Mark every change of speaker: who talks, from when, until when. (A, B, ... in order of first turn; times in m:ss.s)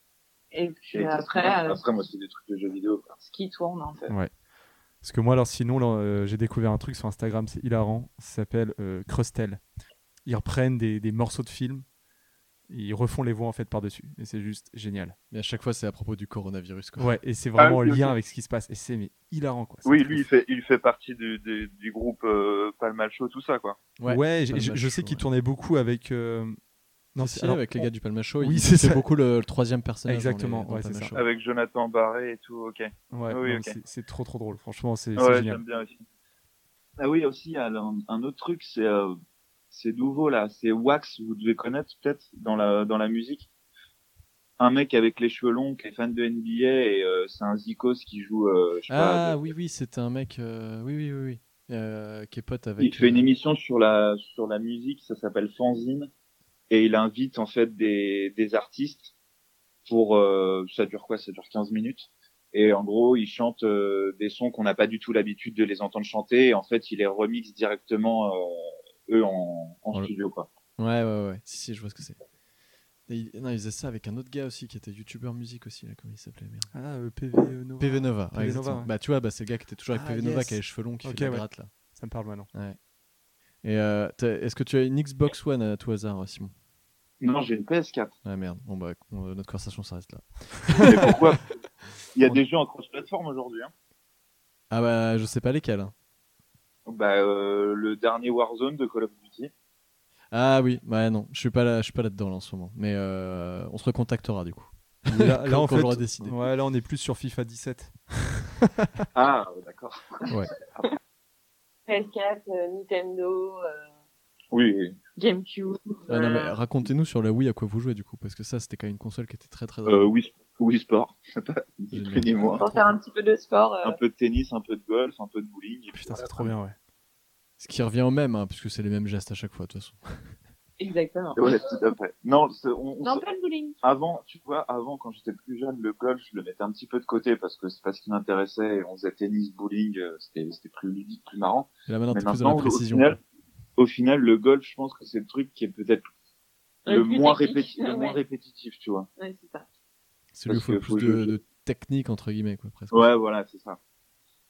0:00.5-0:01.8 A
0:00.9-0:03.1 B
0:03.2-0:04.1 A
0:05.0-0:09.6 C
0:10.2-0:11.8 C
0:12.7-0:15.2 C
0:15.3-0:17.1 D
0:17.0-0:20.2 C
0:17.6-0:18.2 B
0:19.8-0:23.8 B
0:24.0-0:25.2 D
0:24.0-0:26.6 C
0:27.1-0:27.8 C
0:27.2-0:31.3 D
0:28.4-0:29.0 C
0:30.0-0:31.1 C
0:31.1-0:33.8 B
0:33.1-0:35.6 C
0:35.2-0:36.0 B
0:37.0-0:39.1 B
0:39.7-0:43.5 B
0:44.6-0:49.4 B
0:48.9-0:53.3 D
0:52.8-0:56.1 B
0:56.7-0:59.1 B
0:59.8-1:10.5 B
1:10.8-1:12.2 D
1:13.1-1:16.7 D
1:16.7-1:18.9 C
1:17.8-1:21.7 D
1:19.9-1:22.5 C
1:22.5-1:22.8 D
1:23.6-1:26.5 D
1:27.2-1:28.1 B
1:28.2-1:30.9 D
1:30.7-1:31.1 C
1:30.8-1:31.5 B
1:32.1-1:33.7 B
1:34.7-1:35.9 D
1:36.8-1:39.5 B
1:40.3-1:46.4 D
1:45.1-1:49.0 C
1:49.1-1:50.9 B
1:51.9-1:53.9 A
1:54.5-1:55.0 B
1:55.2-1:56.6 A
1:56.1-2:00.1 D
1:59.8-2:02.6 B
2:01.9-2:02.6 D
2:02.4-2:04.0 A
2:03.8-2:06.5 B
2:06.0-2:06.8 C
2:07.6-2:10.4 D
2:10.8-2:11.4 A
2:11.4-2:13.2 B
2:13.0-2:13.8 A
2:13.8-2:23.2 B
2:21.9-2:23.2 D
2:23.8-2:26.0 B
2:26.8-2:28.2 A
2:26.8-2:29.1 B
2:29.2-2:29.6 A
2:30.3-2:33.1 D
2:30.5-2:31.3 B
2:32.9-2:33.8 B